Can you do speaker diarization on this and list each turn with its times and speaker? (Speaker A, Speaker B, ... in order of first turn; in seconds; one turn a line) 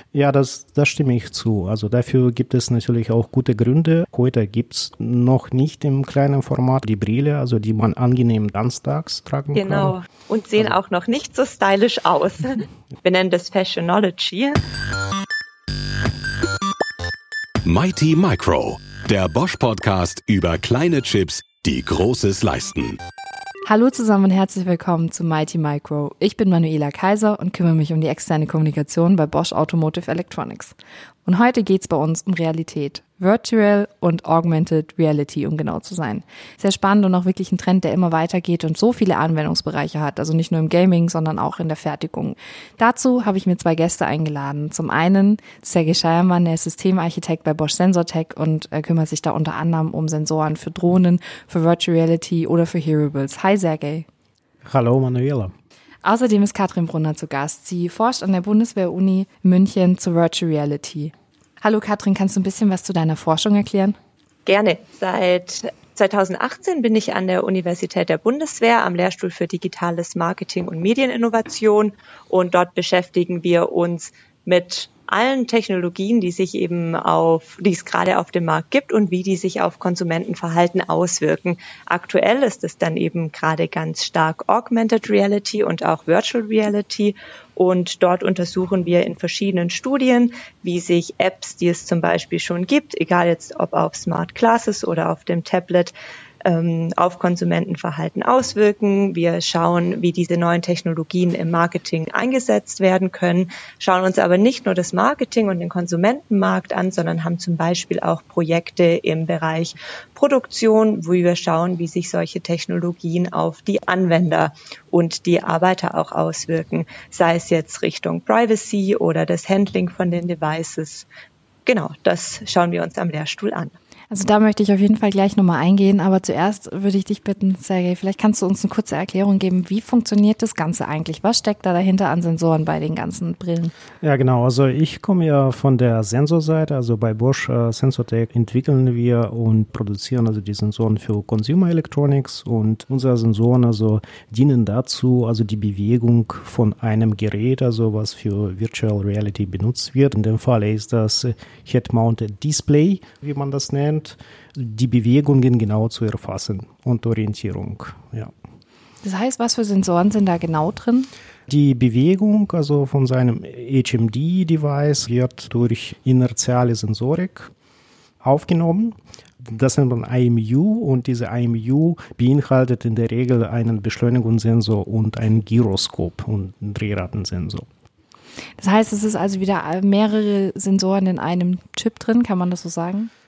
Speaker A: 0.1-10.0
Speaker B: 9.5-14.6
Speaker C: 17.6-23.0
Speaker D: 23.7-54.1
Speaker A: 54.6-55.5
Speaker D: 56.0-64.0
Speaker B: 64.5-95.9
Speaker B: 96.5-121.1
Speaker B: 121.7-123.8
Speaker D: 124.1-133.7
Speaker A: 134.0-158.3
Speaker D: 159.0-161.1
Speaker A: 161.5-167.5
Speaker A: 168.2-177.7
Speaker D: 178.6-183.1